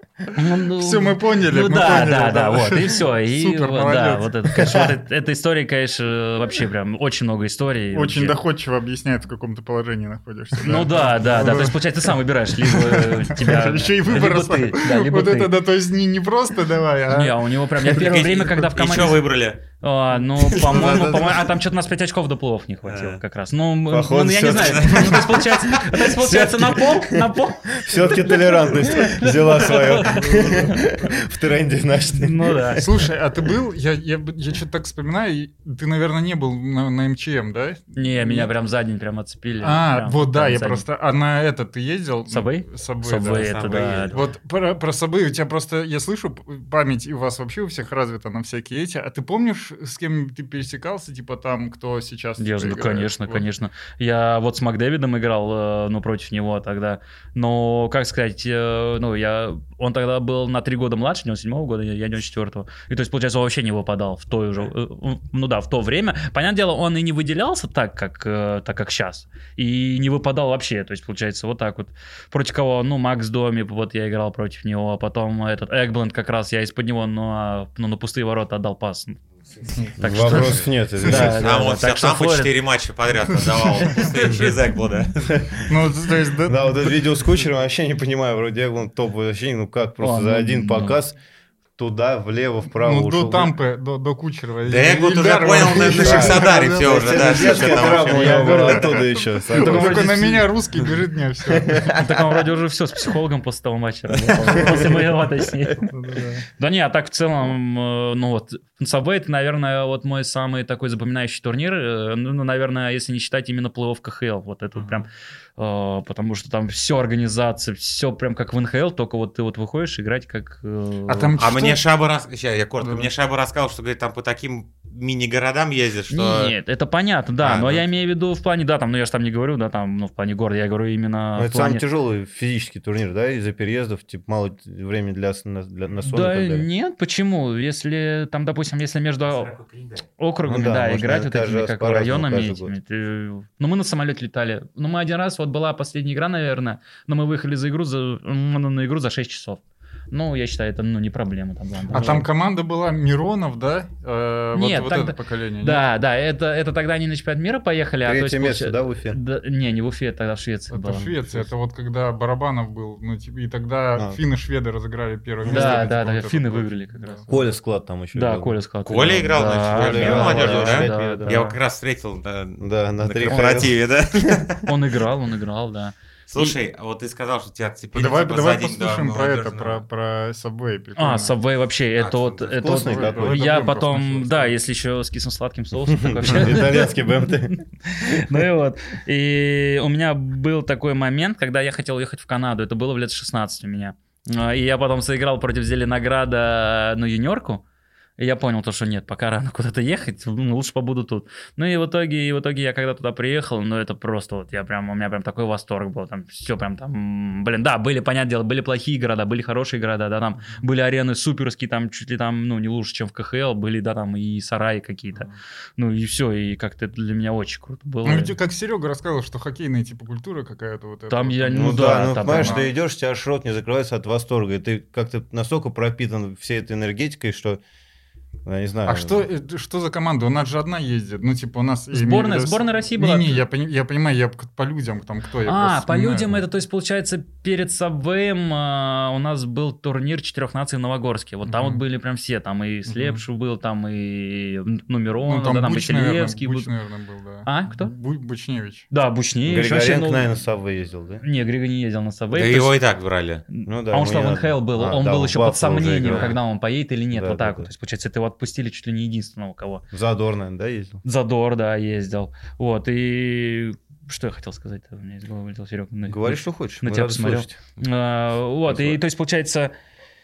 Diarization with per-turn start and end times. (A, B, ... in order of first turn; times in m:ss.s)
0:00.3-0:08.4 A
0:00.8-0:04.9 B
0:07.9-0:17.4 B
0:10.6-0:15.6 A
0:17.1-0:30.8 A
0:17.9-0:18.3 B
0:18.0-0:19.6 C
0:20.4-0:21.2 C
0:20.5-0:21.5 D
0:22.9-0:23.2 C
0:23.9-0:25.5 D
0:24.5-0:25.9 C
0:26.1-0:32.8 D
0:30.4-0:30.7 B
0:32.1-0:32.9 A
0:32.8-0:38.5 B
0:38.0-0:40.8 A
0:39.6-0:53.5 B
0:42.3-0:44.2 A
0:43.3-0:44.3 C
0:52.4-1:19.2 A
1:19.8-1:20.3 B
1:20.0-1:22.6 A
1:20.0-1:21.8 D
1:20.2-1:25.5 C
1:23.8-1:24.6 A
1:25.3-1:25.7 D
1:25.7-1:27.1 B
1:26.5-1:31.2 D
1:30.0-1:31.0 A
1:31.8-1:33.5 D
1:32.8-1:42.0 B
1:34.7-1:38.7 C
1:35.8-1:40.2 D
1:38.1-1:40.5 A
1:41.5-1:42.3 D
1:41.9-1:46.0 A
1:44.5-1:44.9 B
1:45.9-1:46.5 B
1:46.5-2:01.4 A
2:01.1-2:01.8 B
2:01.4-2:06.5 C
2:02.8-2:03.1 B
2:06.1-2:11.8 A
2:07.4-2:07.8 C
2:11.4-2:16.7 D
2:16.0-2:19.5 A
2:19.3-2:20.1 C
2:20.2-2:32.3 A
2:20.5-2:22.8 D
2:31.9-2:35.8 B
2:31.9-2:32.3 D
2:34.6-2:41.1 A
2:38.0-2:39.2 D
2:40.7-2:47.3 B
2:45.4-2:47.3 A
2:47.3-2:48.6 D
2:48.1-2:51.6 A
2:48.8-2:54.7 C
2:49.7-2:51.4 D
2:52.6-2:54.4 D
2:53.3-2:53.7 A
2:54.6-2:56.6 A
2:56.3-2:59.8 C
2:57.9-3:01.4 B
3:01.0-3:17.6 A
3:02.0-3:02.6 C
3:02.5-3:03.4 D
3:02.7-3:04.6 B
3:05.9-3:08.3 D
3:18.2-3:38.3 A
3:38.0-3:42.7 B
3:41.1-3:42.6 A
3:41.5-3:47.6 D
3:48.4-3:49.2 D
3:48.9-3:56.4 B
3:51.9-3:53.4 A
3:55.4-4:06.7 A
4:01.5-4:01.8 B
4:02.9-4:03.2 B
4:05.3-4:08.9 B
4:07.4-4:07.9 A
4:08.9-4:10.3 A
4:09.4-4:11.2 D
4:11.2-4:12.8 A
4:12.3-4:13.4 C
4:13.5-4:19.8 A
4:13.6-4:16.4 D
4:16.0-4:16.4 B
4:17.1-4:17.7 D
4:19.9-4:21.0 D
4:21.0-4:29.7 A
4:26.1-4:27.6 D
4:28.7-4:29.0 D